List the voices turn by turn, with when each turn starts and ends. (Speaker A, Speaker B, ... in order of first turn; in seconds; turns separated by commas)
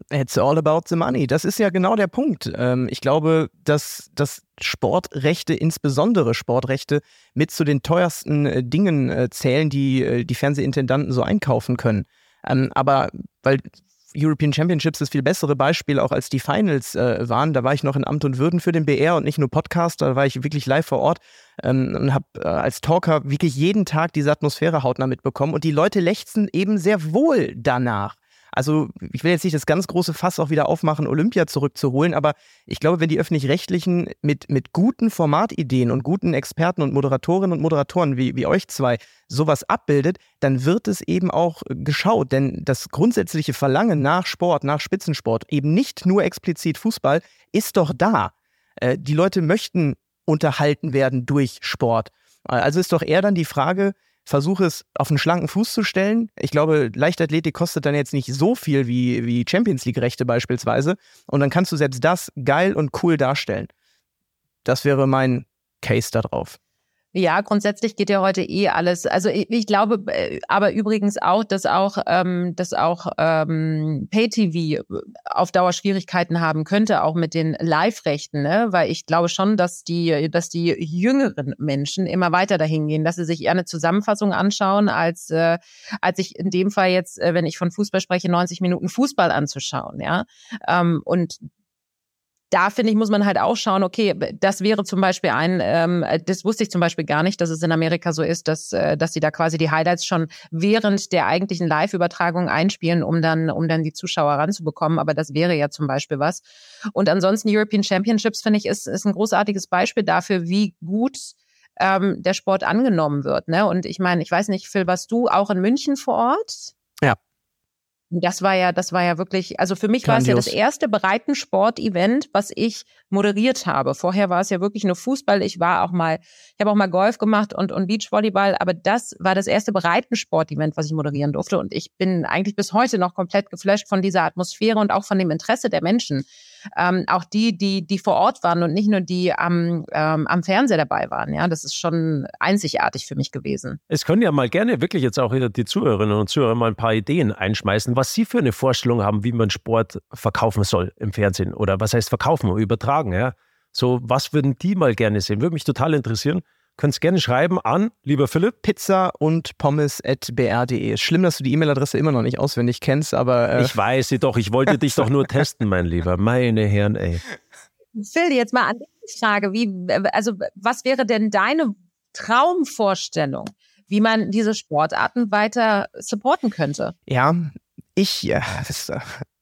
Speaker A: 0.1-63.7, Speaker A: 64.6-66.6, Speaker B: 67.1-91.4, Speaker B: 92.5-106.4, Speaker B: 106.9-116.7, Speaker B: 118.1-143.8, Speaker A: 120.0-120.5, Speaker C: 143.9-158.6, Speaker A: 158.6-163.7, Speaker C: 163.6-167.2, Speaker B: 167.9-176.9, Speaker A: 177.1-179.2